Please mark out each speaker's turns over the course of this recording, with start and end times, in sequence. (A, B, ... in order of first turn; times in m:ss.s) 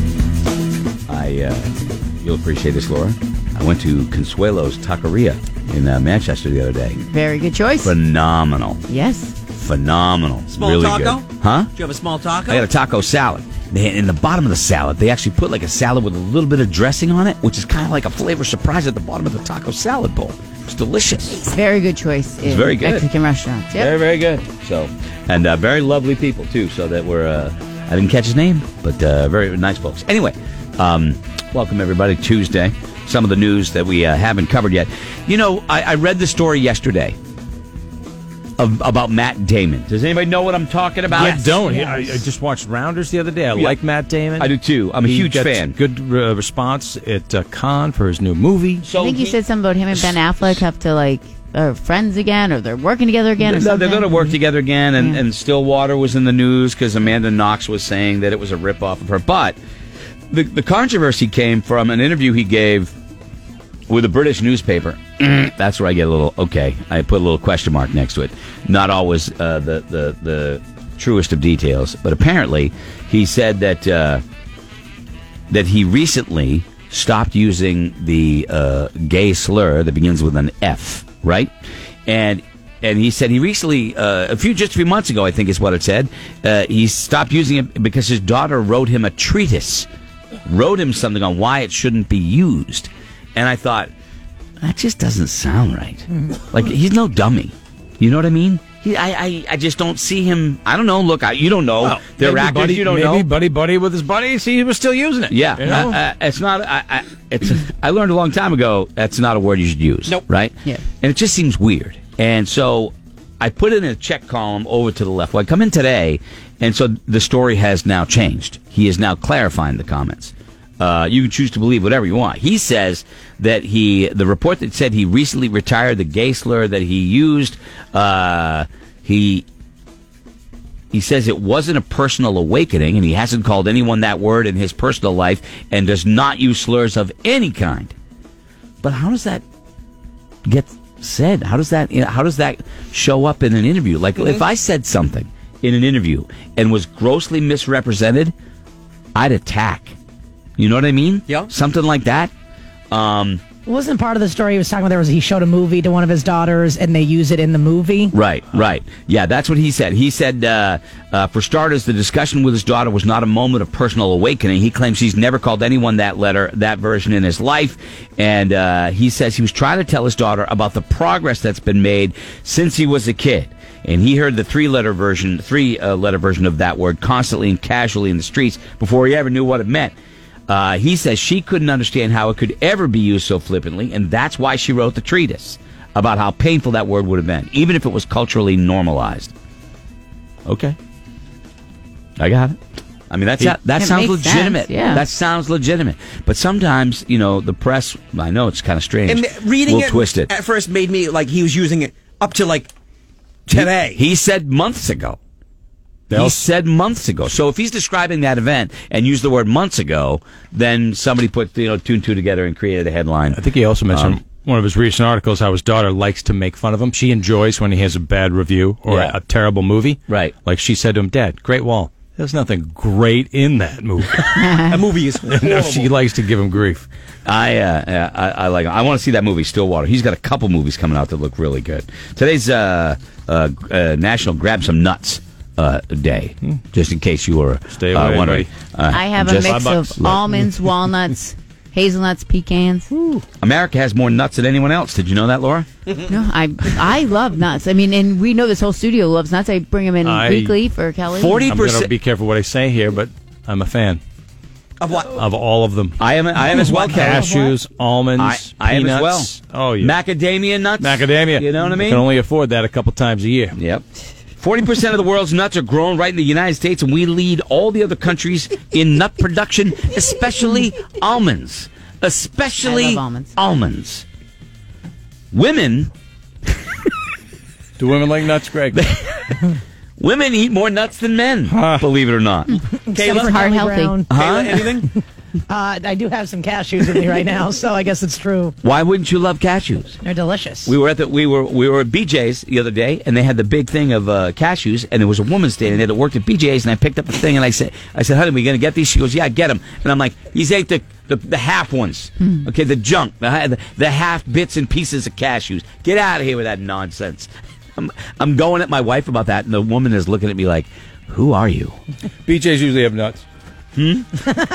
0:01.1-0:07.0 A
0:07.0-0:08.0 B
0:07.8-0:08.8 A
0:08.9-0:09.3 B
0:09.5-0:11.7 A
0:10.5-0:12.7 C
0:12.5-0:21.4 A
0:21.4-0:24.0 B
0:22.4-0:23.1 A
0:23.7-0:37.2 A
0:38.6-0:41.6 A
0:41.1-0:48.8 D
0:44.4-0:45.8 A
0:48.8-0:49.4 A
0:48.9-0:54.4 B
0:53.4-0:59.6 A
0:54.9-0:55.2 B
1:00.3-1:02.9 A
1:03.9-1:14.2 A
1:15.5-1:21.5 A
1:22.1-1:29.9 A
1:30.5-1:33.9 A
1:34.6-1:43.3 A
1:41.8-1:46.0 D
1:45.3-2:09.5 A
2:10.9-2:17.9 A
2:18.8-2:19.4 A
2:20.5-2:28.3 A
2:29.2-2:30.0 A
2:30.6-2:32.3 A
2:32.9-2:33.4 A
2:33.7-2:38.1 E
2:38.1-2:59.9 A
3:00.5-3:09.3 A
3:10.5-3:10.8 A
3:12.2-3:12.6 A
3:13.1-3:20.3 A
3:13.8-3:15.0 B
3:19.1-3:22.7 C
3:23.5-3:24.0 C
3:23.5-3:25.2 A
3:26.1-3:26.4 D
3:26.1-3:34.2 A
3:33.3-3:44.6 D
3:38.9-3:39.2 A
3:40.1-3:40.3 A
3:44.6-3:45.9 C
3:45.2-3:46.9 D
3:47.2-4:00.3 A
3:57.7-3:58.5 D
3:58.9-4:02.9 B
3:59.3-4:00.4 D
4:03.0-4:03.2 D
4:03.4-4:05.7 A
4:06.1-4:11.5 B
4:10.0-4:10.6 D
4:11.1-4:11.9 A
4:11.5-4:14.0 D
4:14.8-4:15.2 C
4:15.1-4:20.0 D
4:16.0-4:17.3 A
4:16.6-4:17.5 C
4:18.2-4:22.1 A
4:20.8-4:23.6 D
4:23.5-4:23.8 A
4:24.4-4:34.0 A
4:32.6-4:33.3 B
4:35.3-4:35.9 A
4:37.8-4:38.8 D
4:38.7-4:42.6 A
4:41.5-4:41.9 D
4:42.9-4:44.1 E
4:42.9-4:43.5 C
4:43.2-4:44.0 B
4:44.1-4:44.8 A
4:44.1-4:44.9 C
4:45.5-4:48.5 E
4:48.6-4:50.0 A
4:50.0-4:50.7 E
4:50.6-5:11.8 A
5:12.2-5:13.2 D
5:13.8-5:14.2 A